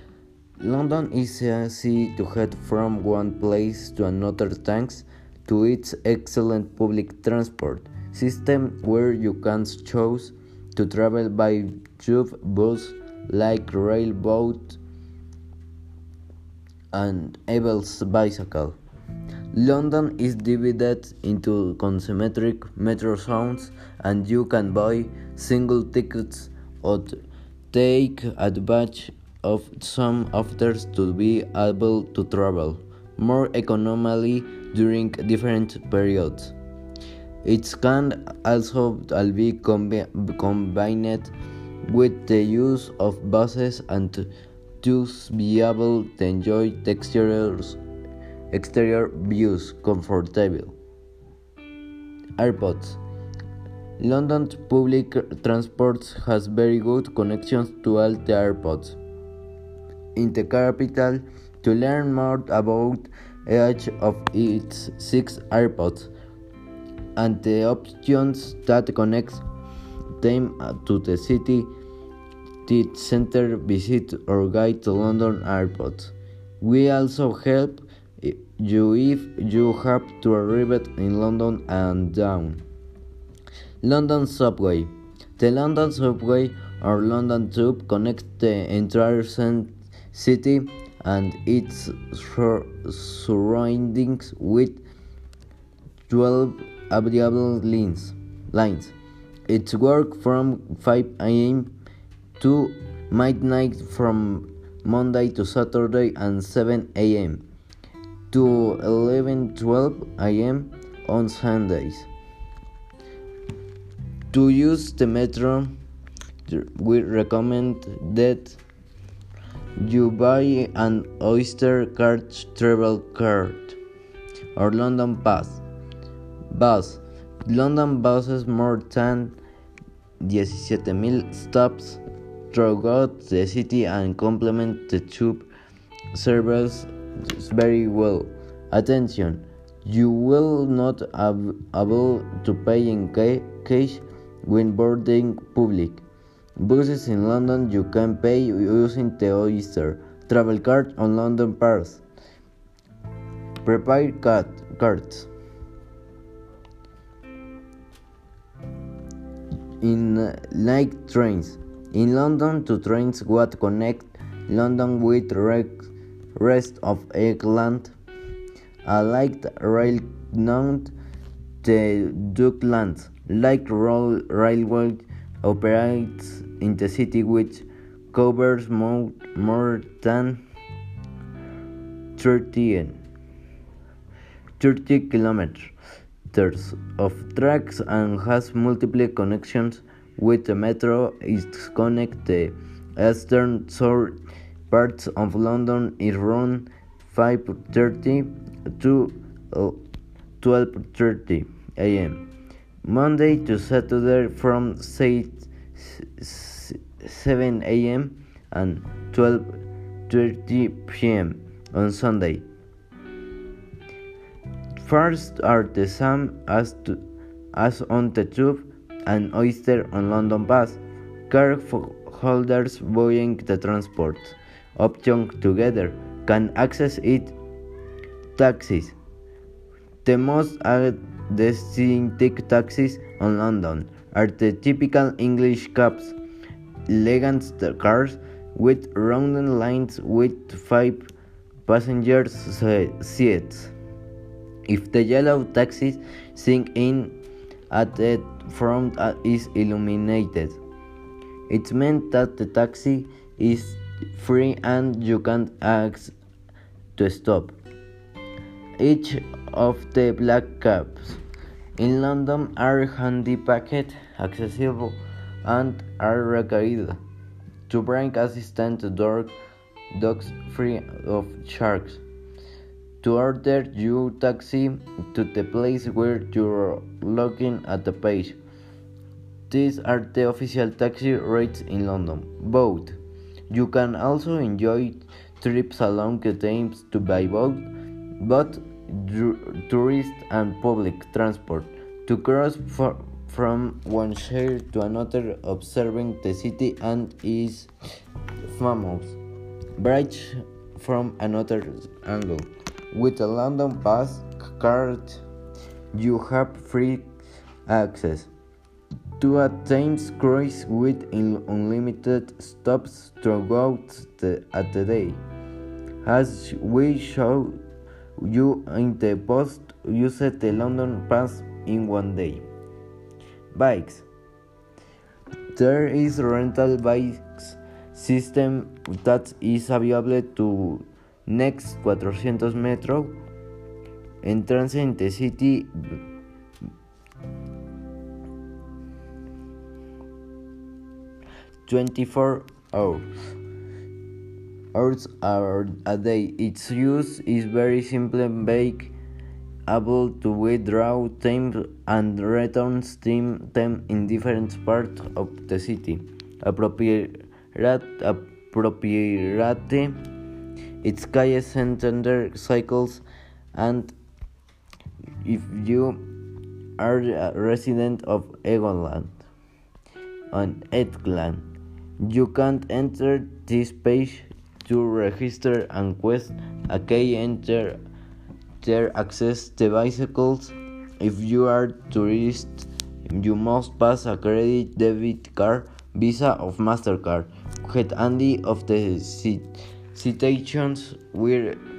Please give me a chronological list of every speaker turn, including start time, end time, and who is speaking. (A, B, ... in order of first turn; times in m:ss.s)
0:00.6-0:14.8 A
0:16.9-0:18.8 A
0:19.5-0:27.2 A
0:27.7-0:36.5 A
0:37.4-0:41.3 A
0:41.8-0:44.3 A
0:44.8-0:47.8 A
0:48.5-0:50.7 A
0:52.4-0:53.0 A
0:54.0-0:59.0 A
1:00.2-1:06.1 A
1:07.2-1:09.4 A
1:10.2-1:11.7 A
1:12.6-1:22.6 A
1:23.8-1:34.8 A
1:36.1-1:38.9 A
1:39.5-1:41.7 A
1:42.4-1:47.4 A
1:48.3-1:52.1 A
1:54.3-1:55.8 A
1:56.4-1:58.6 A
1:59.8-2:03.8 A
2:04.5-2:05.6 A
2:06.5-2:09.4 A
2:10.2-2:12.0 A
2:12.5-2:15.5 A
2:16.1-2:26.0 A
2:26.6-2:32.0 A
2:33.6-2:35.3 A
2:39.8-2:47.9 A
2:48.8-2:50.9 A
2:51.6-3:00.4 A
3:02.2-3:03.0 A
3:04.6-3:05.7 A
3:06.3-3:14.2 A
3:14.7-3:19.8 A
3:20.4-3:22.3 A
3:22.8-3:32.4 A
3:34.8-3:37.0 A
3:37.5-3:47.3 A
3:48.4-3:49.0 A
3:50.0-3:56.2 A
3:56.9-4:01.1 A
4:01.6-4:03.7 A
4:04.7-4:07.2 A
4:07.7-4:10.6 A
4:11.5-4:16.1 A
4:17.0-4:17.6 A
4:18.8-4:21.2 A
4:21.8-4:27.0 A
4:27.7-4:29.4 A
4:29.9-4:32.0 A
4:33.0-4:38.4 A
4:39.5-4:43.0 A
4:43.5-4:57.7 A
4:58.4-4:59.2 A
4:59.8-5:05.2 A
5:05.9-5:07.1 A
5:07.6-5:08.3 A
5:09.2-5:15.2 A
5:16.0-5:17.6 A
5:18.2-5:22.4 A
5:23.5-5:24.1 A
5:25.5-5:33.1 A
5:34.2-5:36.0 A
5:41.6-5:43.1 A
5:44.7-5:48.9 A
5:49.7-6:00.0 A
6:00.8-6:03.9 A
6:05.2-6:06.0 A
6:06.8-6:09.2 A
6:10.3-6:11.4 A
6:12.0-6:17.8 A
6:18.6-6:31.6 A